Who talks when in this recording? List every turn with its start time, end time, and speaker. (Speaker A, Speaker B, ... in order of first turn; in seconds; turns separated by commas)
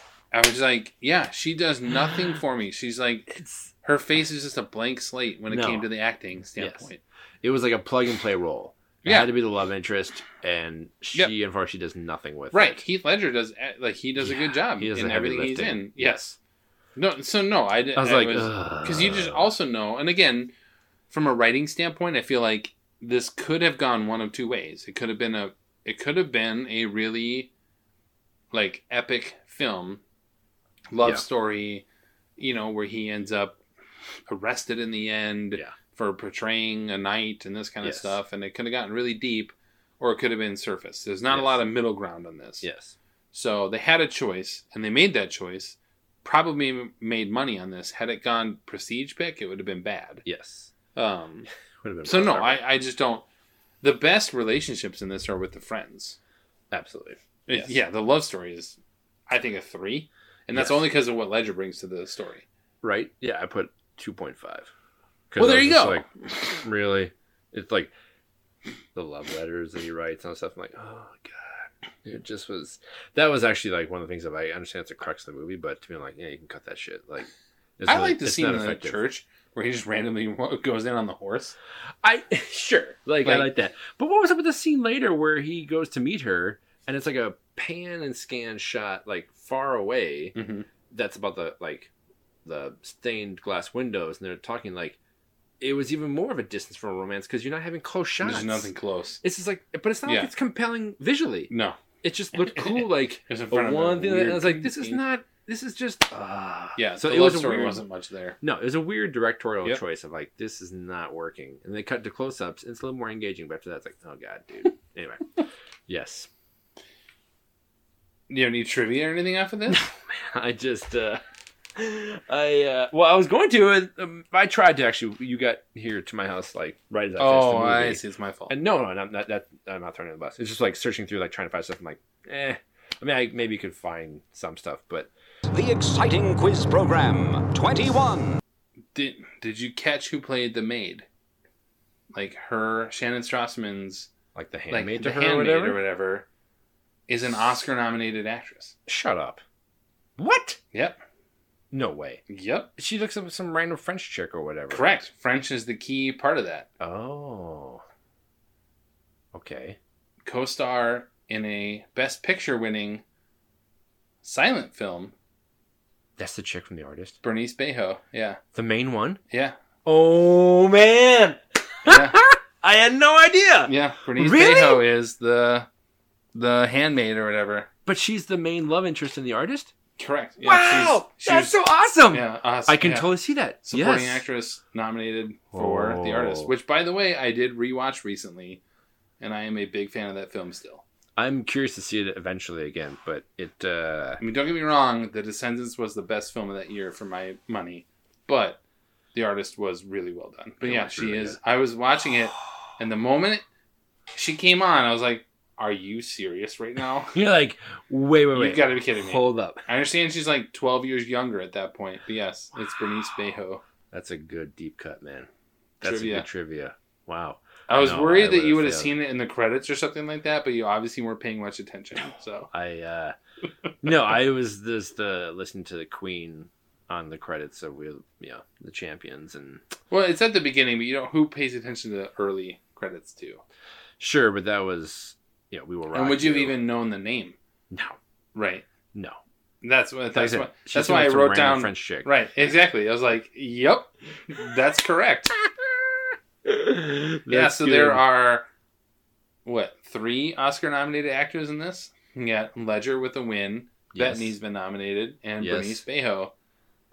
Speaker A: 0.3-3.3, Speaker B: 3.3-3.7, Speaker A: 3.8-7.0, Speaker B: 5.5-5.9, Speaker B: 6.5-6.9, Speaker B: 7.4-12.8, Speaker A: 9.0-9.3, Speaker A: 12.5-16.2, Speaker B: 14.2-16.4, Speaker A: 16.9-20.5, Speaker B: 17.9-19.5, Speaker A: 21.1-27.5, Speaker A: 28.5-30.0, Speaker A: 30.9-31.9, Speaker A: 32.4-33.6, Speaker A: 34.3-42.6, Speaker B: 37.8-38.2, Speaker B: 41.3-41.7, Speaker B: 42.6-42.9, Speaker A: 43.3-50.2, Speaker B: 50.2-50.7, Speaker A: 50.9-51.5, Speaker B: 51.8-52.6, Speaker A: 52.0-53.2, Speaker A: 53.8-56.2, Speaker B: 56.7-57.7, Speaker A: 57.5-58.8, Speaker A: 59.3-62.5, Speaker B: 60.5-60.8, Speaker B: 62.8-64.7, Speaker B: 65.3-67.9, Speaker A: 65.4-66.0, Speaker B: 68.9-79.0, Speaker A: 77.9-81.5, Speaker B: 82.0-90.3, Speaker A: 83.2-83.5, Speaker A: 90.3-90.7, Speaker B: 90.9-91.9, Speaker B: 92.4-95.0, Speaker B: 95.6-98.7, Speaker A: 98.2-99.2, Speaker B: 99.2-107.8, Speaker A: 100.0-100.3, Speaker A: 101.5-101.8, Speaker A: 102.3-105.0, Speaker A: 106.8-108.4, Speaker B: 108.4-116.3, Speaker A: 118.3-119.8, Speaker B: 119.7-121.2, Speaker B: 121.7-135.1, Speaker A: 127.2-128.5, Speaker C: 135.5-138.3, Speaker A: 138.9-141.1, Speaker A: 142.1-144.1, Speaker B: 144.3-145.8, Speaker A: 144.7-146.3, Speaker A: 147.1-148.8, Speaker B: 148.9-149.4, Speaker B: 150.2-150.6, Speaker A: 150.7-151.0, Speaker B: 151.7-152.2, Speaker A: 152.3-152.7, Speaker B: 152.8-155.0, Speaker A: 154.7-156.7, Speaker B: 156.8-157.8, Speaker B: 159.3-159.8, Speaker A: 160.2-163.0, Speaker A: 164.2-165.1, Speaker B: 166.2-167.2, Speaker A: 167.2-168.4, Speaker B: 168.5-169.2, Speaker A: 169.3-169.6, Speaker B: 169.8-174.8, Speaker A: 171.8-172.2, Speaker A: 173.7-175.7, Speaker A: 176.3-177.7, Speaker B: 177.8-179.7, Speaker A: 180.0-181.5, Speaker B: 180.4-184.2, Speaker A: 182.1-183.1, Speaker A: 183.6-188.6, Speaker B: 185.5-186.5, Speaker A: 189.2-190.8, Speaker B: 191.2-194.2, Speaker A: 194.2-198.6, Speaker A: 199.1-203.4, Speaker B: 200.6-201.4, Speaker A: 204.1-207.2, Speaker B: 207.1-209.6, Speaker A: 208.3-213.6, Speaker B: 213.9-215.3, Speaker B: 215.8-218.9, Speaker A: 215.8-216.3, Speaker A: 217.7-222.5, Speaker B: 222.5-223.1, Speaker B: 223.8-229.6, Speaker A: 229.9-233.4, Speaker B: 234.0-236.6, Speaker A: 235.9-237.4, Speaker B: 237.7-238.0, Speaker A: 238.3-238.7, Speaker A: 239.6-245.3, Speaker B: 240.1-242.1, Speaker B: 246.4-248.0, Speaker A: 247.3-248.5, Speaker A: 249.4-256.3, Speaker B: 253.9-254.3, Speaker B: 255.4-255.8